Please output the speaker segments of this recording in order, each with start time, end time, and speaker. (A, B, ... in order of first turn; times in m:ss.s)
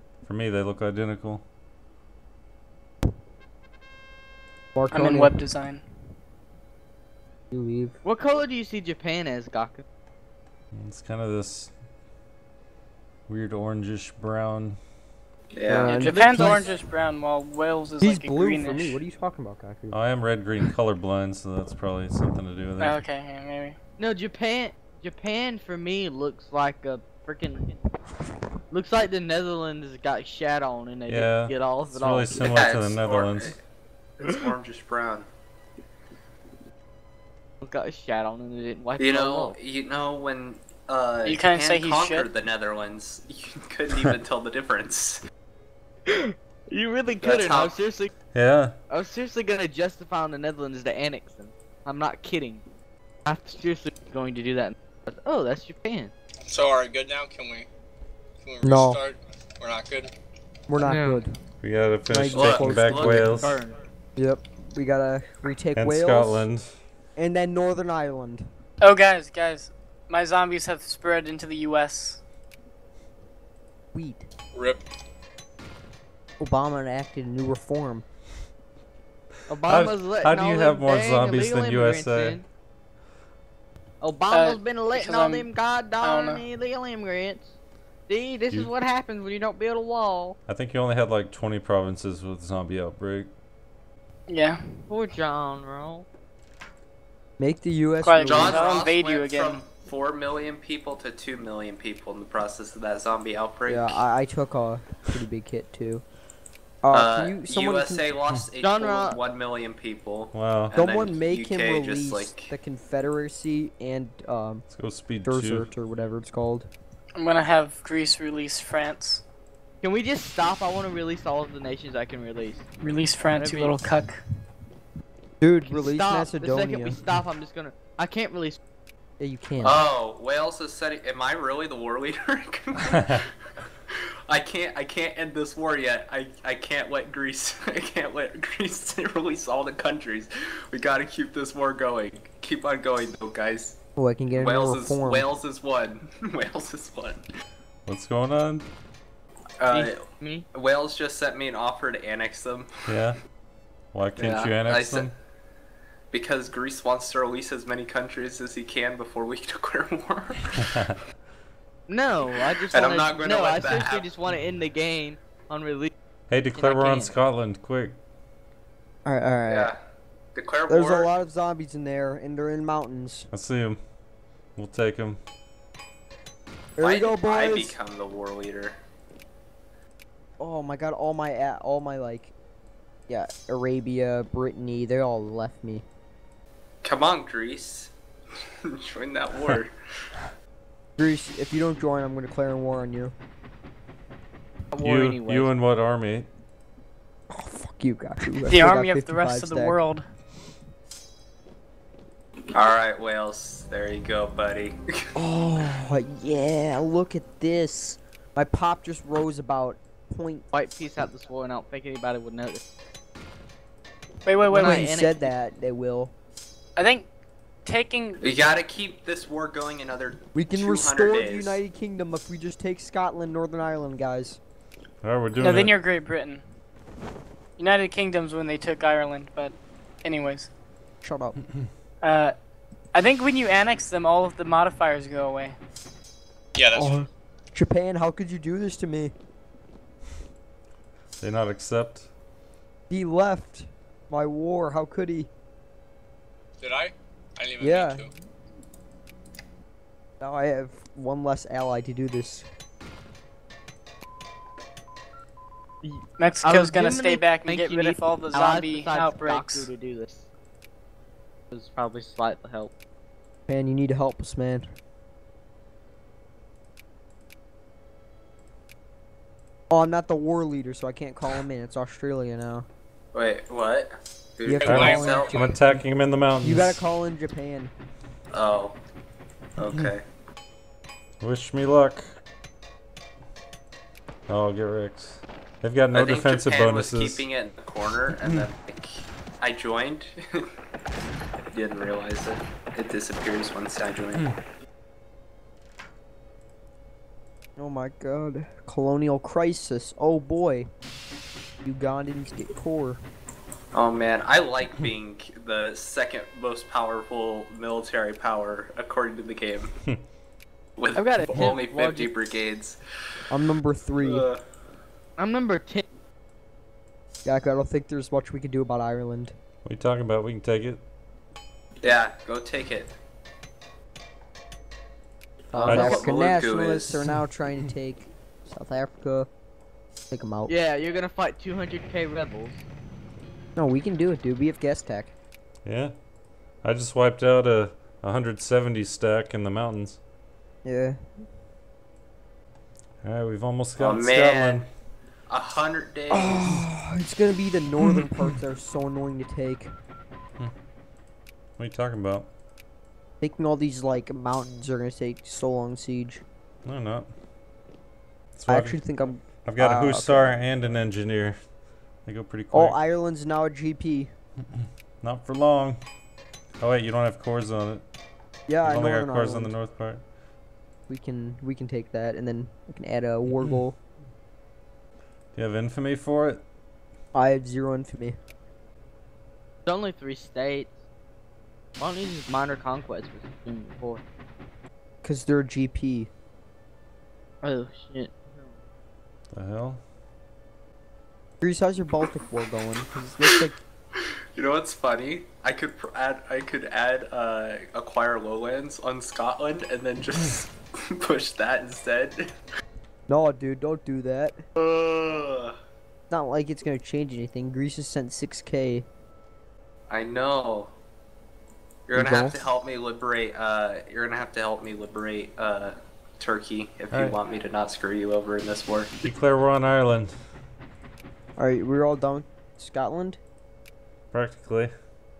0:00.2-0:01.4 A
0:04.7-0:05.3 B
0:04.9-0:05.8 C
0:07.5-0:08.0 B
0:08.0-0:09.8 D
0:10.7-0:11.7 A
0:13.3-0:14.8 A
0:15.5-0:16.0 E
0:15.7-0:16.6 B
0:15.9-0:19.0 C
0:16.0-0:16.7 D
0:18.0-0:20.0 B
0:19.9-0:23.0 A
0:22.8-0:23.8 C
0:24.0-0:27.8 D
0:28.7-0:32.4 D
0:31.1-0:33.5 A
0:32.4-0:33.6 E
0:34.2-0:35.3 E
0:37.6-0:39.6 D
0:39.0-0:45.2 E
0:41.2-0:42.3 C
0:46.1-0:48.1 D
0:47.2-0:47.8 E
0:48.3-0:48.8 A
0:48.9-0:52.6 D
0:53.2-0:56.1 D
0:56.5-0:57.7 F
0:58.4-1:00.1 F
0:58.6-0:59.0 B
1:00.7-1:01.3 B
1:00.8-1:01.2 D
1:01.6-1:03.6 A
1:02.1-1:03.4 B
1:02.3-1:03.5 E
1:03.4-1:03.7 D
1:04.2-1:06.5 B
1:05.7-1:06.8 A
1:07.2-1:08.4 B
1:08.8-1:12.2 C
1:13.9-1:14.3 B
1:16.4-1:18.0 B
1:19.5-1:22.4 D
1:19.7-1:22.4 A
1:24.0-1:27.5 D
1:24.3-1:25.5 C
1:26.0-1:26.4 C
1:28.1-1:30.4 D
1:30.5-1:33.3 A
1:34.3-1:34.9 C
1:34.9-1:36.1 D
1:37.4-1:38.8 B
1:38.0-1:39.6 C
1:38.2-1:44.0 E
1:43.6-1:46.0 B
1:46.8-1:48.1 B
1:46.9-1:52.5 E
1:48.6-1:49.2 D
1:50.3-1:50.7 A
1:50.7-1:54.6 B
1:54.7-1:55.7 A
1:55.2-1:56.7 B
1:57.2-1:59.2 C
1:59.8-2:02.7 D
2:02.8-2:04.2 C
2:03.3-2:03.8 D
2:05.4-2:07.0 B
2:05.6-2:08.6 D
2:09.2-2:09.8 B
2:09.6-2:13.3 E
2:13.9-2:23.8 E
2:24.0-2:25.3 B
2:24.3-2:27.2 E
2:27.8-2:28.7 A
2:29.6-2:30.0 E
2:29.7-2:30.4 D
2:30.5-2:33.1 E
2:32.9-2:33.2 A
2:33.9-2:35.1 A
2:34.2-2:35.1 E
2:36.1-2:40.8 E
2:41.9-2:45.9 D
2:42.7-2:44.1 E
2:46.3-2:48.0 A
2:46.5-2:47.2 D
2:49.0-2:49.7 B
2:49.5-2:49.8 E
2:50.3-2:51.1 E
2:50.7-2:53.3 B
2:53.3-2:53.8 A
2:54.6-2:55.2 A
2:56.8-2:57.8 B
2:56.8-2:58.8 E
3:00.4-3:02.3 B
3:03.1-3:05.8 B
3:06.8-3:07.9 E
3:08.7-3:09.7 E
3:11.0-3:13.1 B
3:14.7-3:15.5 D
3:14.8-3:16.3 A
3:17.3-3:19.8 B
3:18.5-3:20.1 C
3:22.5-3:24.8 E
3:25.1-3:30.5 B
3:30.5-3:32.6 D
3:34.2-3:34.9 C
3:34.5-3:36.1 B
3:34.5-3:35.3 D
3:36.8-3:37.1 C
3:37.6-3:38.2 C
3:38.2-3:41.6 E
3:40.3-3:44.4 B
3:45.0-3:45.8 A
3:45.3-3:46.4 C
3:47.6-3:50.5 C
3:51.0-3:51.4 B
3:52.0-3:52.3 C
3:52.9-3:55.6 C
3:56.6-3:57.0 F
3:56.7-3:59.1 B
4:01.2-4:02.1 A
4:02.9-4:05.3 B
4:06.6-4:08.1 F
4:07.6-4:08.1 B
4:10.2-4:12.5 B
4:15.8-4:20.2 D
4:16.2-4:19.7 C
4:21.5-4:22.7 D
4:23.5-4:24.7 B
4:29.7-4:32.7 B
4:33.1-4:35.5 E
4:34.4-4:35.5 B
4:34.6-4:35.6 F
4:34.6-4:36.8 A
4:36.4-4:37.7 B
4:38.3-4:38.8 E
4:39.6-4:40.0 E
4:41.2-4:42.2 A
4:44.3-4:47.2 A
4:45.9-4:50.4 E
4:51.5-4:54.3 E
4:57.6-5:00.7 B
5:01.6-5:03.0 B
5:03.7-5:09.7 E
5:10.8-5:12.8 E
5:10.9-5:12.1 D
5:13.3-5:14.3 B
5:14.0-5:14.4 E
5:15.2-5:15.8 D
5:17.2-5:19.3 B
5:19.6-5:20.8 A
5:21.8-5:22.9 E
5:25.5-5:29.3 B
5:25.5-5:27.0 E
5:25.7-5:26.0 A
5:25.7-5:26.1 D
5:30.1-5:30.5 B
5:30.5-5:32.6 D
5:33.6-5:35.1 B
5:35.6-5:35.9 A
5:36.6-5:40.0 A
5:40.6-5:41.0 B
5:43.0-5:44.6 A
5:43.8-5:44.7 E
5:45.3-5:46.6 E
5:46.1-5:49.7 B
5:51.6-5:52.3 A
5:53.2-5:56.2 B
5:56.6-5:57.1 A
5:58.3-5:58.8 A
5:58.5-6:00.3 B
5:59.4-6:01.4 A
6:02.0-6:02.8 A
6:02.5-6:04.1 B
6:04.6-6:05.8 A
6:06.6-6:07.8 A
6:08.5-6:09.5 B
6:08.6-6:10.0 A
6:10.9-6:13.8 B
6:15.3-6:16.4 A
6:17.1-6:18.2 B
6:19.6-6:20.8 D
6:21.8-6:24.0 D
6:25.0-6:26.1 B
6:27.4-6:28.5 D
6:29.3-6:29.8 A
6:31.4-6:33.6 B
6:34.0-6:42.2 E
6:43.1-6:44.4 B
6:44.6-6:45.6 E
6:46.1-6:48.9 B
6:49.9-6:50.7 E
6:51.9-6:58.9 E
6:51.9-6:52.5 B
6:56.9-6:57.2 A
6:59.0-7:00.2 A
7:01.4-7:03.2 B
7:04.1-7:04.7 A